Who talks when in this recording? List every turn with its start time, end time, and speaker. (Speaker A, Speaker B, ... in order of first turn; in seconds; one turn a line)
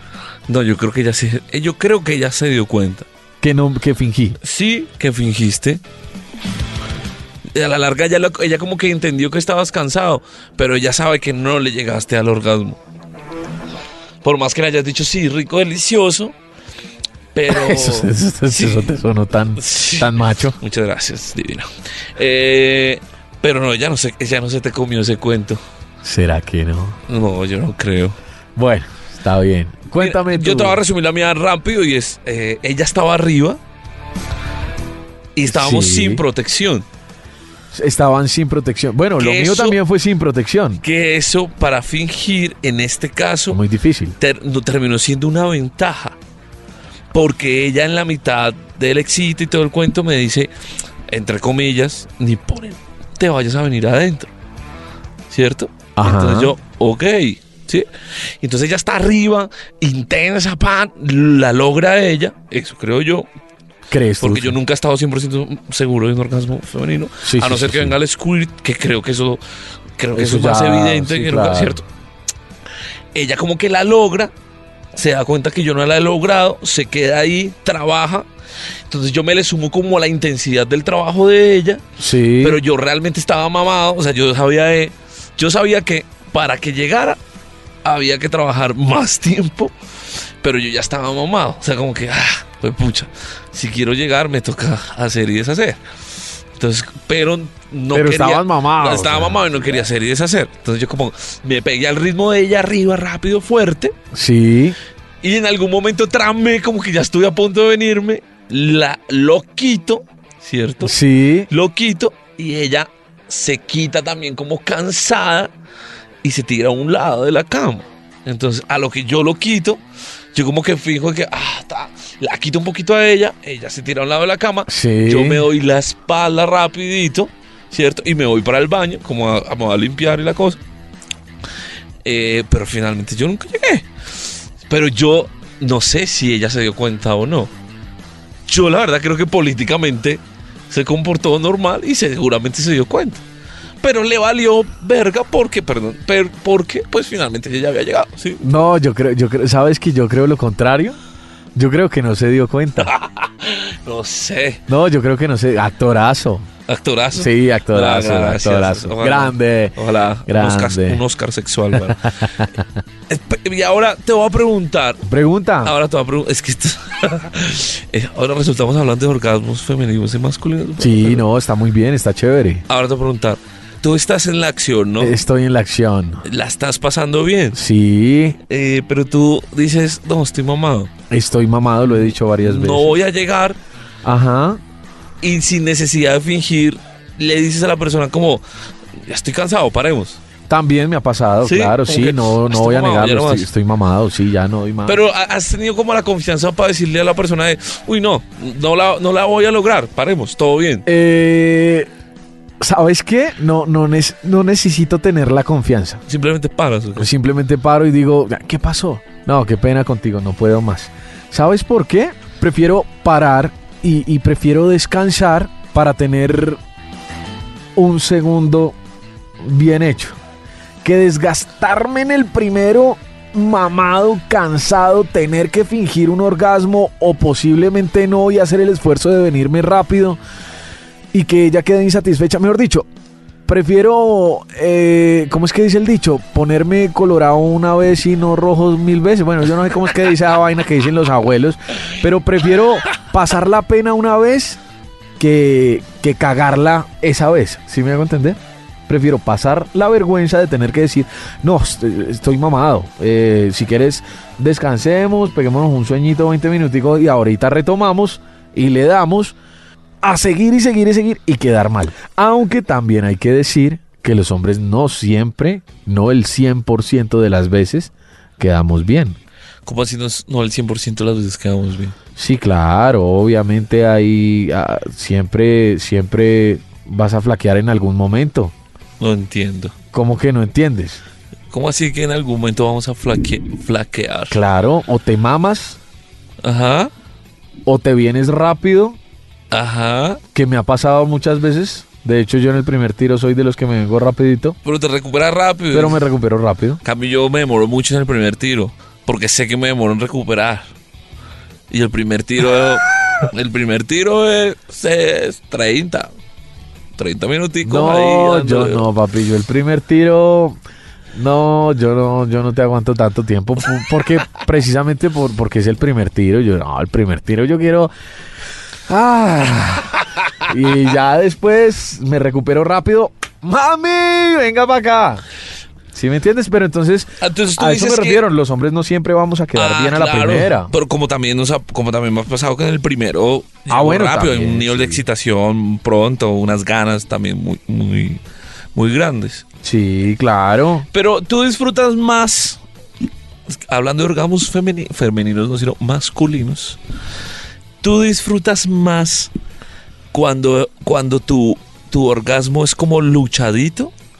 Speaker A: 0.5-3.1
Speaker B: 3.4-4.4
Speaker A: 4.4-5.8
Speaker A: 7.5-12.8
Speaker A: 14.2-16.3
Speaker A: 17.3-18.9
Speaker B: 17.5-20.6
Speaker A: 19.6-25.6
Speaker B: 26.0-27.0
Speaker A: 27.1-28.2
Speaker B: 28.6-30.8
Speaker A: 30.0-33.6
Speaker A: 35.3-36.8
Speaker B: 35.5-36.2
Speaker B: 37.7-40.8
Speaker A: 39.2-39.8
Speaker A: 40.8-43.6
Speaker B: 43.5-44.2
Speaker A: 44.2-46.2
Speaker A: 47.1-50.5
Speaker A: 51.1-54.3
Speaker A: 55.3-57.9
Speaker B: 56.0-56.5
Speaker A: 58.4-63.2
Speaker B: 63.9-64.5
Speaker A: 64.2-69.4
Speaker B: 67.2-68.0
Speaker A: 70.0-71.8
Speaker B: 70.1-71.8
Speaker A: 73.1-74.3
Speaker A: 74.9-78.2
Speaker A: 78.9-81.8
Speaker B: 82.0-82.6
Speaker A: 82.4-87.2
Speaker A: 87.8-89.7
Speaker A: 90.4-95.8
Speaker A: 96.5-103.9
Speaker B: 97.9-99.9
Speaker B: 104.1-104.8
Speaker A: 105.2-111.0
Speaker B: 110.8-111.5
Speaker A: 111.5-115.5
Speaker A: 116.2-119.8
Speaker A: 120.3-130.6
Speaker B: 124.7-125.5
Speaker A: 132.0-133.9
Speaker A: 134.6-137.5
Speaker A: 138.5-143.2
Speaker A: 143.8-148.4
Speaker B: 148.4-151.0
Speaker B: 151.5-152.9
Speaker A: 152.8-154.6
Speaker B: 154.7-156.5
Speaker A: 156.7-162.1
Speaker B: 157.1-161.0
Speaker B: 161.7-162.7
Speaker A: 163.1-165.0
Speaker B: 165.0-165.7
Speaker A: 165.6-171.2
Speaker B: 170.8-172.6
Speaker A: 172.7-175.2
Speaker B: 175.0-176.2
Speaker A: 176.2-177.6
Speaker B: 177.5-178.4
Speaker A: 178.5-180.9
Speaker B: 181.1-182.9
Speaker A: 182.4-183.6
Speaker B: 184.0-184.6
Speaker A: 185.2-188.4
Speaker A: 189.0-190.2
Speaker B: 190.5-195.0
Speaker A: 191.4-193.5
Speaker A: 194.8-200.8
Speaker B: 200.8-201.9
Speaker B: 202.6-206.0
Speaker A: 206.1-207.1
Speaker B: 207.0-216.6
Speaker B: 217.8-218.8
Speaker B: 219.4-220.2
Speaker B: 220.8-230.2
Speaker B: 231.1-232.9
Speaker B: 233.4-244.6
Speaker B: 245.2-259.3
Speaker B: 260.0-269.2
Speaker A: 269.6-271.9
Speaker B: 272.1-278.5
Speaker A: 279.0-279.7
Speaker B: 279.9-281.0
Speaker A: 281.5-284.4
Speaker B: 284.3-285.8
Speaker A: 286.4-286.9
Speaker B: 287.6-289.0
Speaker A: 289.5-290.2
Speaker B: 290.3-294.6
Speaker A: 294.6-296.0
Speaker B: 295.7-296.8
Speaker A: 296.8-300.6
Speaker A: 301.7-306.1
Speaker A: 306.9-308.9
Speaker B: 307.6-310.6
Speaker B: 311.1-317.9
Speaker B: 318.9-325.2
Speaker B: 325.9-330.7
Speaker A: 327.2-328.2
Speaker A: 329.5-338.2
Speaker B: 333.7-335.0
Speaker A: 338.7-339.4
Speaker B: 339.6-340.9
Speaker A: 340.9-342.6
Speaker A: 343.5-346.8
Speaker A: 347.8-349.3
Speaker A: 350.1-353.9